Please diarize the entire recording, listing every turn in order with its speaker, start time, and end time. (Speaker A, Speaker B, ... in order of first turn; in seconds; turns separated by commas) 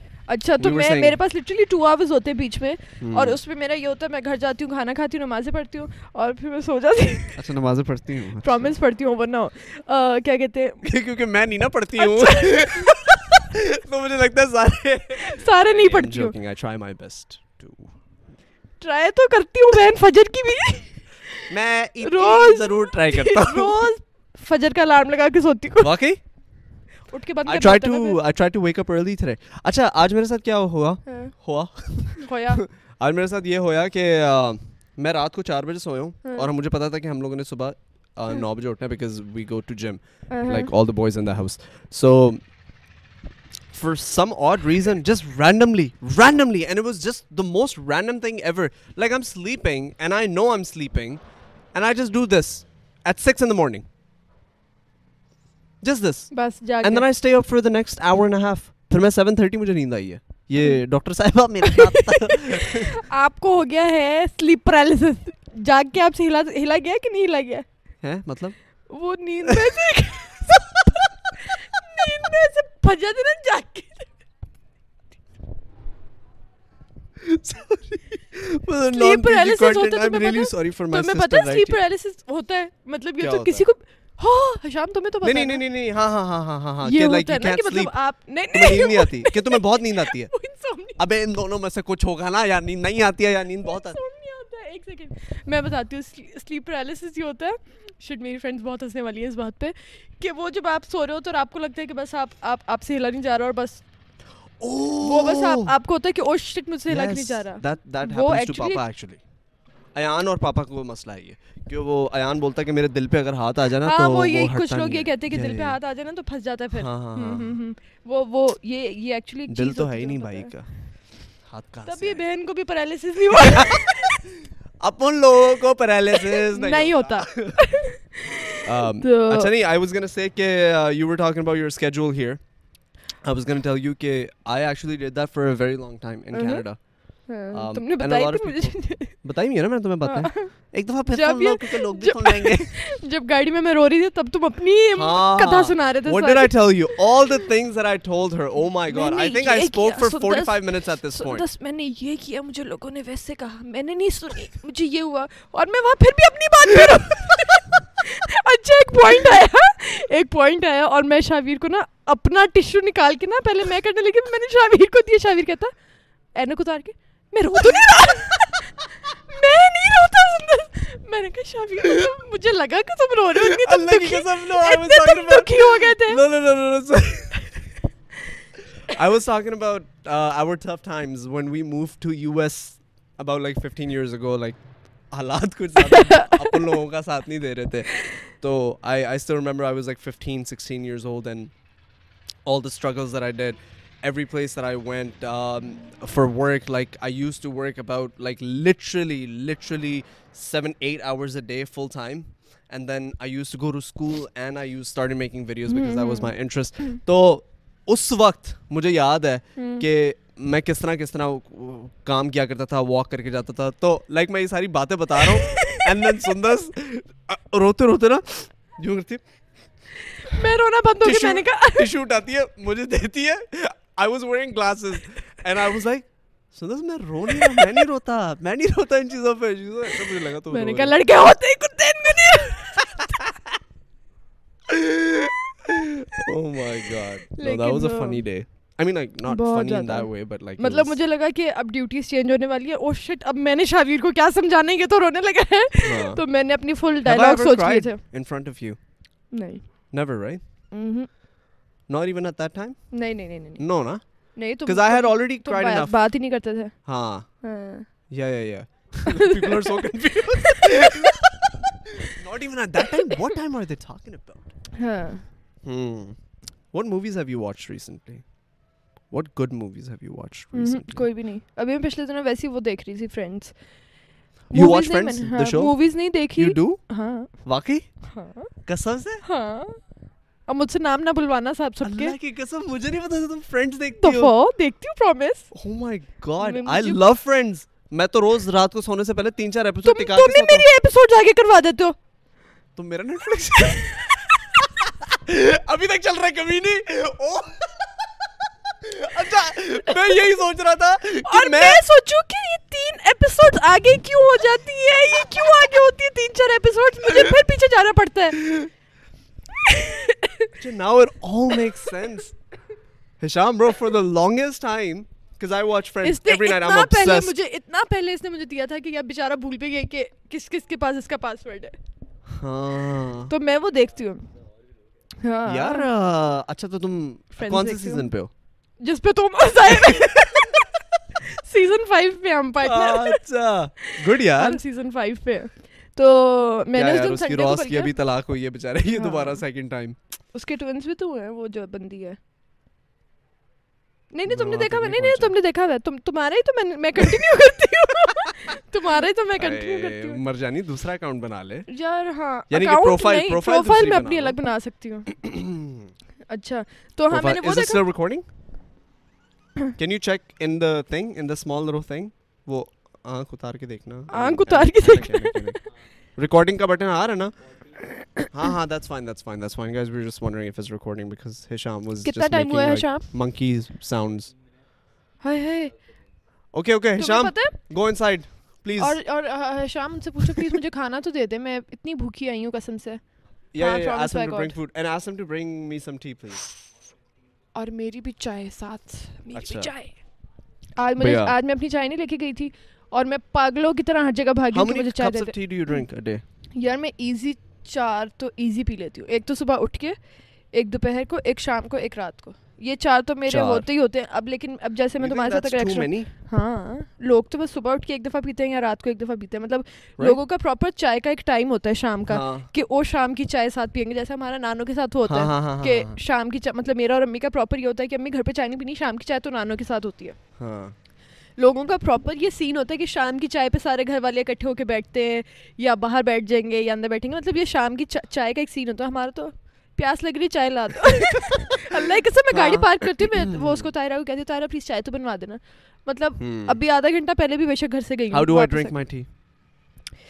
Speaker A: 0.3-7.5, Speaker B: 0.6-1.2, Speaker B: 3.0-3.4, Speaker B: 7.3-8.7, Speaker A: 8.4-10.8, Speaker B: 10.8-17.9, Speaker A: 12.0-13.1, Speaker A: 15.2-16.3, Speaker A: 18.8-21.5, Speaker B: 21.5-23.9, Speaker A: 22.0-25.9, Speaker B: 25.8-26.2, Speaker A: 27.1-28.2, Speaker B: 27.4-42.4, Speaker A: 31.1-31.3, Speaker A: 32.2-32.6, Speaker A: 40.3-40.7, Speaker B: 43.7-51.2, Speaker B: 51.7-53.9, Speaker B: 55.8-62.9, Speaker A: 56.3-57.0, Speaker A: 61.6-67.6, Speaker B: 68.0-68.6, Speaker A: 68.9-71.0, Speaker B: 69.5-69.8, Speaker A: 71.7-74.1, Speaker B: 77.2-81.8, Speaker A: 78.9-85.6, Speaker B: 83.2-83.6, Speaker B: 85.2-88.0, Speaker A: 86.8-91.0, Speaker B: 88.5-90.3, Speaker B: 91.0-94.0, Speaker A: 93.6-103.8, Speaker B: 104.6-105.7, Speaker A: 105.0-108.8, Speaker B: 106.9-109.2, Speaker B: 109.9-115.8, Speaker A: 113.8-120.5, Speaker B: 116.7-117.5, Speaker B: 119.5-120.8, Speaker B: 121.4-122.2, Speaker A: 121.8-124.2, Speaker B: 123.3-124.2, Speaker B: 124.8-127.6, Speaker A: 126.3-129.5, Speaker B: 128.6-132.4, Speaker B: 133.2-142.8, Speaker A: 136.3-136.6, Speaker A: 137.2-139.2, Speaker A: 140.0-147.0, Speaker B: 144.9-151.4, Speaker A: 148.9-165.7, Speaker A: 166.3-176.2, Speaker B: 173.3-177.4, Speaker B: 178.9-191.5, Speaker A: 185.8-186.6, Speaker B: 192.4-219.2, Speaker A: 205.7-206.3, Speaker A: 209.6-209.8, Speaker A: 215.4-215.8, Speaker A: 220.2-221.9, Speaker B: 221.0-230.9, Speaker A: 230.5-233.2, Speaker B: 234.7-241.0, Speaker A: 237.3-238.2, Speaker A: 239.3-248.0, Speaker B: 245.8-246.2, Speaker B: 247.0-248.8, Speaker A: 249.3-249.9, Speaker B: 249.9-250.4, Speaker A: 250.7-251.1, Speaker B: 251.9-256.0, Speaker A: 252.9-257.9, Speaker B: 256.8-257.4, Speaker B: 258.1-261.3, Speaker A: 259.1-261.1, Speaker B: 261.9-264.5, Speaker A: 264.8-265.2, Speaker B: 265.6-268.3, Speaker B: 269.1-271.0, Speaker A: 270.5-273.6, Speaker B: 274.5-277.9, Speaker A: 274.5-277.4, Speaker A: 278.0-278.5, Speaker B: 278.6-279.2, Speaker A: 279.2-279.8, Speaker A: 280.5-282.1, Speaker B: 281.8-284.3, Speaker A: 284.0-285.5, Speaker B: 285.5-290.7, Speaker A: 286.4-287.0, Speaker A: 289.8-291.9, Speaker B: 292.8-297.9, Speaker A: 293.6-294.2, Speaker B: 298.8-301.8, Speaker A: 301.2-308.7, Speaker A: 309.6-310.5, Speaker B: 310.6-312.4, Speaker B: 313.2-317.3, Speaker A: 316.0-321.8, Speaker B: 322.3-323.3, Speaker A: 323.3-324.3, Speaker A: 325.2-325.9, Speaker B: 325.4-328.3, Speaker A: 327.4-328.1, Speaker A: 328.8-330.6, Speaker B: 329.7-330.6, Speaker A: 331.3-333.2, Speaker B: 332.6-334.6, Speaker A: 333.8-337.9, Speaker B: 336.7-340.0, Speaker A: 338.9-339.4, Speaker A: 340.3-342.2, Speaker A: 344.1-350.2, Speaker B: 344.3-345.3, Speaker B: 349.4-351.7, Speaker A: 351.7-355.2, Speaker B: 352.5-354.4, Speaker B: 355.1-355.9, Speaker A: 356.3-357.8, Speaker B: 357.1-358.2, Speaker B: 359.8-365.6, Speaker A: 364.1-365.6, Speaker B: 366.1-367.4, Speaker B: 368.3-374.3, Speaker A: 372.0-373.1, Speaker A: 375.2-375.8, Speaker B: 376.5-379.0, Speaker A: 377.0-377.5, Speaker A: 378.8-384.5, Speaker B: 383.5-386.5, Speaker A: 387.5-389.9, Speaker B: 389.3-389.7, Speaker A: 390.8-395.8, Speaker B: 391.0-391.3, Speaker B: 394.5-396.2, Speaker A: 396.5-400.0, Speaker A: 400.5-420.2, Speaker B: 403.3-403.6, Speaker B: 405.0-406.1, Speaker B: 412.1-412.5, Speaker B: 415.1-416.0, Speaker B: 420.4-420.7, Speaker A: 421.4-438.8, Speaker B: 432.3-433.7, Speaker B: 436.2-436.6, Speaker B: 438.1-439.1